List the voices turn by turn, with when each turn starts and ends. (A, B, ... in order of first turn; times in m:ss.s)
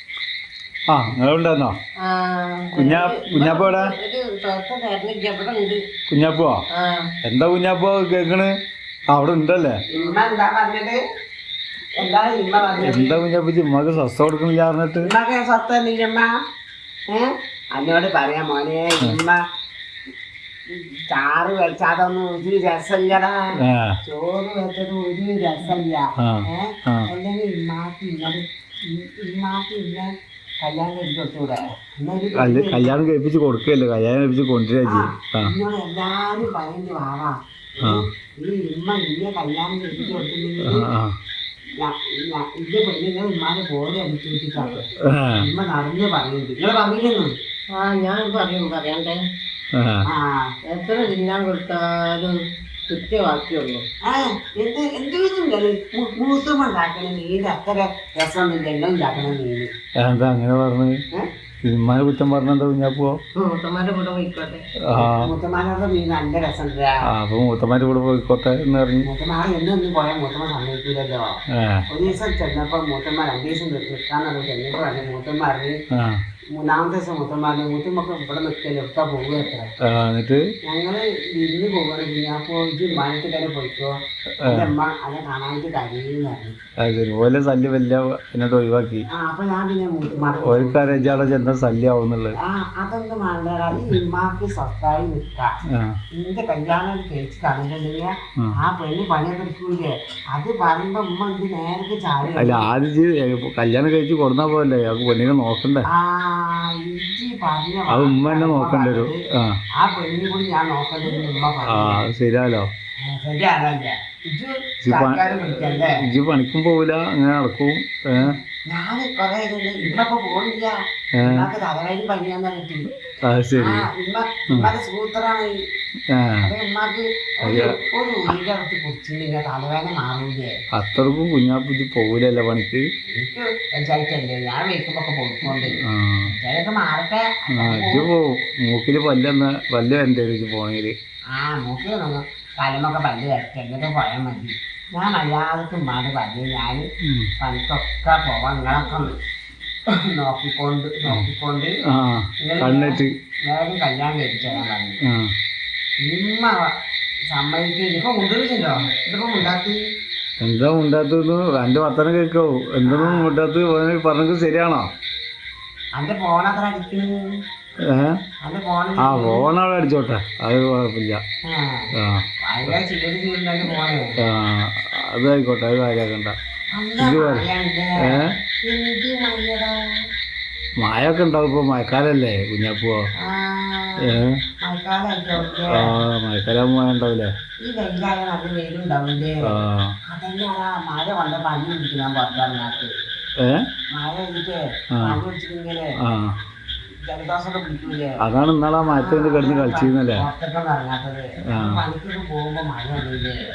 0:00.9-0:01.8 A
0:02.0-0:05.8 B
0:02.7-0:03.9 A
0:06.1-0:06.6 A
0:06.7-0:07.1 B
0:07.2-0:08.5 A
0:09.1-0:09.8 A
0:09.9-0:11.0 C
0:10.0-0:10.2 B
0:12.0-0:13.2 C
0:12.8-0:15.1 A
0:15.0-0:16.3 C
0:17.1-0:19.4 C
0:20.7-0:33.0 C
0:23.6-0:24.0 A
0:26.2-0:27.1 A
0:32.3-0:35.5 A
0:34.9-0:40.9 C
0:40.6-0:41.1 A
0:41.8-0:47.4 C
0:45.0-0:45.5 A
0:47.8-0:49.2 B
0:49.7-0:50.1 A
0:50.0-0:50.5 C
0:50.6-0:53.9 B
0:54.0-0:59.7 C
1:00.0-1:01.0 A
1:01.6-1:03.2 A
1:03.4-1:04.7 B
1:04.8-1:05.3 A
1:04.9-1:07.1 C
1:07.1-1:09.1 A
1:09.0-1:15.8 C
1:11.6-1:11.8 A
1:15.9-1:16.2 A
1:16.6-1:19.7 C
1:19.8-1:20.4 A
1:20.6-1:26.6 C
1:24.4-1:24.7 A
1:26.8-1:29.1 A
1:29.1-1:31.2 C
1:30.4-1:32.4 A
1:32.4-1:35.5 C
1:36.2-1:42.7 C
1:42.4-1:45.9 A
1:45.9-1:49.2 C
1:47.9-1:49.6 A
1:49.8-1:52.1 C
1:51.6-1:52.7 A
1:53.0-1:56.0 C
1:54.8-1:58.4 A
1:58.3-2:02.9 C
2:01.2-2:01.5 A
2:03.2-2:03.9 A
2:03.6-2:05.5 C
2:06.1-2:06.5 A
2:06.4-2:10.5 C
2:07.4-2:07.7 A
2:10.8-2:12.8 A
2:13.1-2:18.1 C
2:15.8-2:16.3 A
2:17.6-2:20.9 A
2:21.4-2:26.9 C
2:27.0-2:27.3 A
2:27.4-2:29.2 C
2:29.9-2:31.8 C
2:31.9-2:33.1 A
2:32.4-2:35.0 C
2:35.0-2:35.3 A
2:36.0-2:36.6 C
2:37.3-2:39.8 C
2:40.4-2:44.9 A
2:42.8-2:43.4 C
2:46.0-2:47.2 C
2:47.8-2:48.2 A
2:48.4-2:49.5 C
2:49.0-2:51.2 A
2:51.4-2:51.9 C
2:52.0-2:52.7 A
2:52.4-2:54.2 C
2:54.2-2:56.4 A
2:56.8-2:59.8 C
2:57.0-2:57.5 A
2:58.0-2:58.3 A
3:00.8-3:03.0 A
3:03.2-3:05.9 C
3:04.0-3:04.4 A
3:05.4-3:07.3 A
3:07.6-3:09.5 C
3:09.4-3:10.0 A
3:10.1-3:12.9 C
3:13.4-3:13.7 A
3:13.9-3:16.0 C
3:16.0-3:16.4 A
3:17.0-3:18.2 C
3:18.2-3:20.2 A
3:18.8-3:23.4 C
3:21.5-3:21.8 A